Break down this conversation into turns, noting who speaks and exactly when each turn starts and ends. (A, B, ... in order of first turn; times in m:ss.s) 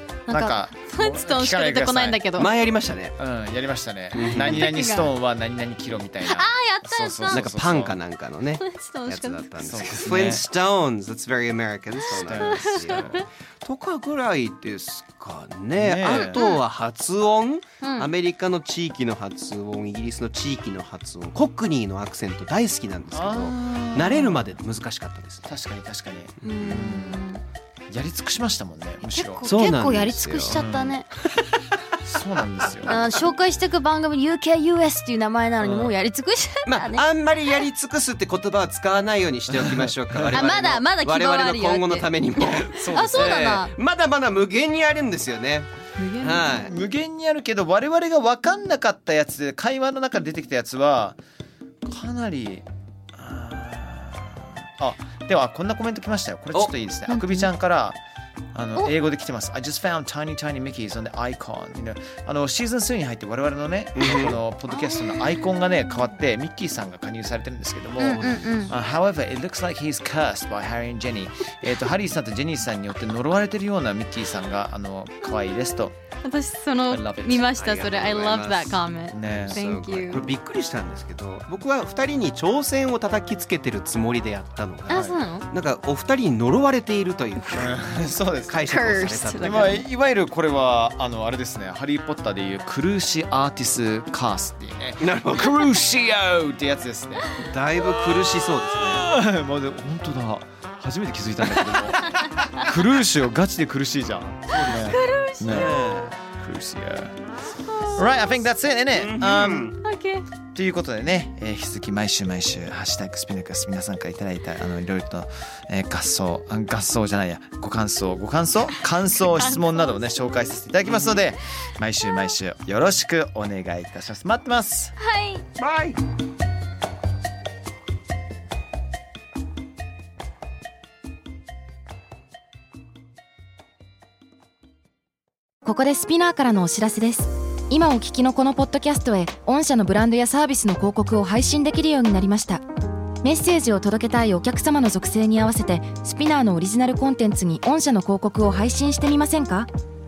0:00.3-0:02.5 A
0:00.3-0:02.2 B
0:02.4-0:03.2 C
0:03.2-0:08.0 B
0:04.1-0:05.1 A
0:04.2-0:04.7 C
0:06.2-0:07.5 A
0:07.3-0:25.5 C
0:08.6-0:09.4 A
0:09.6-0:10.4 B
0:12.1-0:13.2 B
0:12.3-0:13.2 A
0:15.8-0:16.4 B
0:16.1-0:16.6 A
0:17.8-0:18.1 A
0:23.1-0:24.5 B
0:25.5-0:27.2 B
0:26.4-0:27.4 A
0:27.9-0:29.5 B
0:29.0-0:31.1 A
0:29.4-0:30.6 C
0:30.5-0:31.0 B
0:32.0-0:33.0 B
0:32.7-0:33.3 C
0:32.9-0:37.0 A
0:35.6-0:35.9 B
0:36.7-0:45.7 C
0:40.3-0:43.7 A
0:42.8-0:43.6 B
0:46.0-0:46.6 A
0:46.2-0:46.7 C
0:46.4-0:51.2 B
0:51.8-0:58.0 B
0:57.1-0:57.5 A
0:58.5-1:16.0 B
1:04.0-1:04.4 C
1:04.7-1:05.4 A
1:08.0-1:08.7 A
1:08.1-1:08.7 C
1:16.2-1:20.3 A
1:16.9-1:17.5 B
1:17.6-1:27.8 C
1:19.1-1:19.6 B
1:24.9-1:25.5 A
1:27.6-1:28.6 B
1:28.5-1:29.8 C
1:28.7-1:29.8 A
1:29.4-1:47.2 B
1:35.0-1:35.7 C
1:37.4-1:39.1 C
1:44.5-1:46.1 C
1:44.6-1:46.0 A
1:47.7-1:48.2 A
1:47.9-1:49.8 B
1:49.0-1:49.8 C
1:49.8-1:50.2 A
1:50.5-2:05.0 B
1:59.4-2:00.0 A
2:00.8-2:01.3 C
2:05.0-2:05.4 A
2:05.6-2:06.0 C
2:15.6-2:22.6 D
2:23.2-2:29.7 D